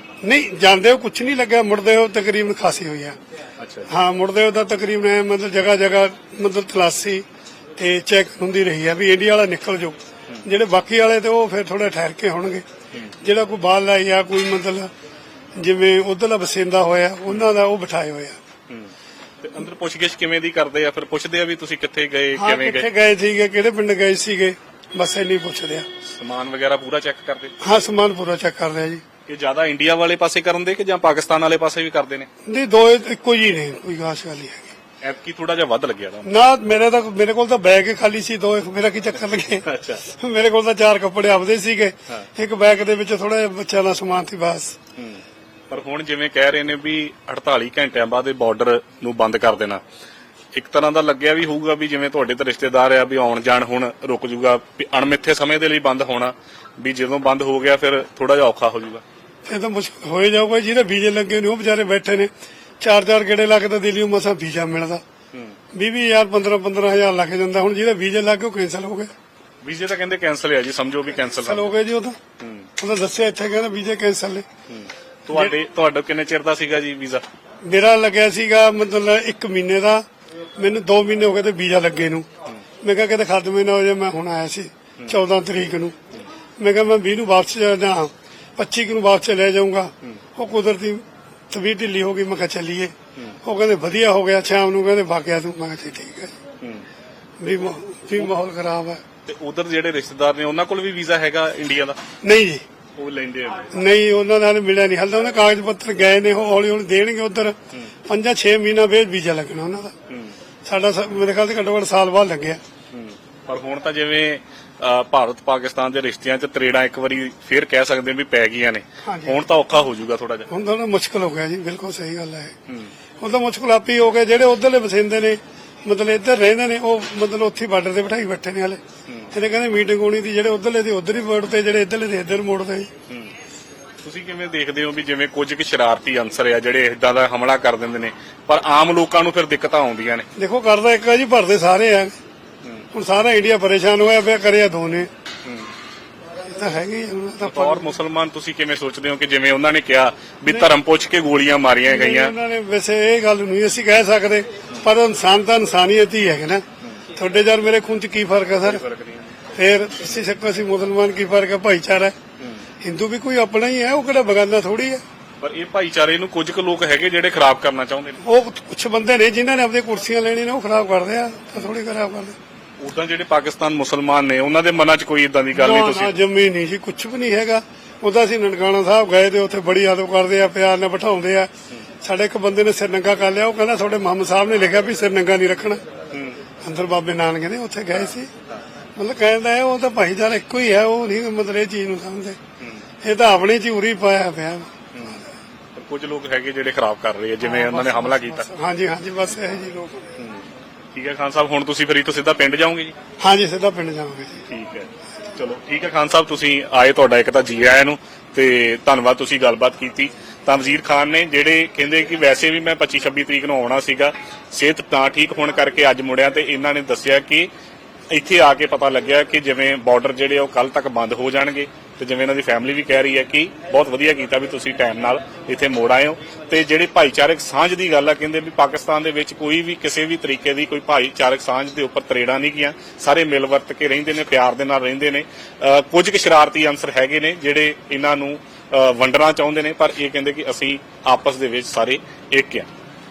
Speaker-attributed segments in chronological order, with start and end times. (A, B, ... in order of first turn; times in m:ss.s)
0:00.2-0:03.2 A
0:03.6-0:03.9 B
0:03.9-0:07.2 A
0:07.8-0:12.6 A
0:13.2-0:14.9 A
0:15.6-0:18.4 A
0:18.7-0:22.9 B
0:22.4-0:25.9 A
0:26.1-0:27.5 B
0:27.6-0:29.0 A
0:29.2-0:32.3 B
0:32.4-0:34.7 A
0:35.0-0:36.3 B
0:36.2-0:44.7 A
0:39.6-0:40.0 B
0:45.0-0:49.8 B
0:50.5-0:59.0 B
0:59.4-1:02.3 A
1:02.8-1:05.0 A
1:05.3-1:05.6 B
1:05.7-1:09.1 A
1:09.6-1:11.7 B
1:11.3-1:12.2 A
1:12.4-1:12.7 B
1:12.8-1:14.4 A
1:14.7-1:17.2 B
1:17.6-1:20.0 A
1:20.6-1:22.2 A
1:22.8-1:25.9 A
1:26.6-1:36.3 A
1:36.6-1:36.8 B
1:37.4-1:39.0 A
1:39.2-1:42.0 B
1:42.2-1:42.6 A
1:43.0-1:43.7 B
1:43.7-1:47.5 A
1:48.1-1:49.9 A
1:50.1-1:50.4 B
1:50.6-1:52.6 A
1:52.9-2:00.5 B
1:59.0-1:59.4 A
2:00.5-2:02.5 A
2:02.7-2:02.9 B
2:03.2-2:08.8 A
2:09.1-2:09.3 B
2:09.3-2:12.9 A
2:14.0-2:20.3 B
2:20.4-2:22.1 A
2:22.9-2:25.1 A
2:25.4-2:25.7 B
2:26.4-2:27.9 A
2:27.4-2:32.3 B
2:31.9-2:36.6 A
2:37.1-2:38.8 A
2:38.6-2:39.4 B
2:39.5-2:42.1 A
2:42.4-2:42.7 B
2:42.8-2:45.0 A
2:45.4-2:48.2 B
2:48.2-2:52.3 A
2:52.8-2:56.2 B
2:55.5-3:01.5 A
3:02.0-3:05.8 A
3:06.1-3:06.4 B
3:06.6-3:08.3 A
3:07.9-3:08.6 B
3:09.0-3:12.4 A
3:13.0-3:14.7 A
3:14.9-3:15.2 B
3:15.7-3:18.5 B
3:17.4-3:20.1 A
3:20.2-3:23.0 B
3:23.2-3:24.4 A
3:24.4-3:37.5 B
3:38.1-4:02.7 B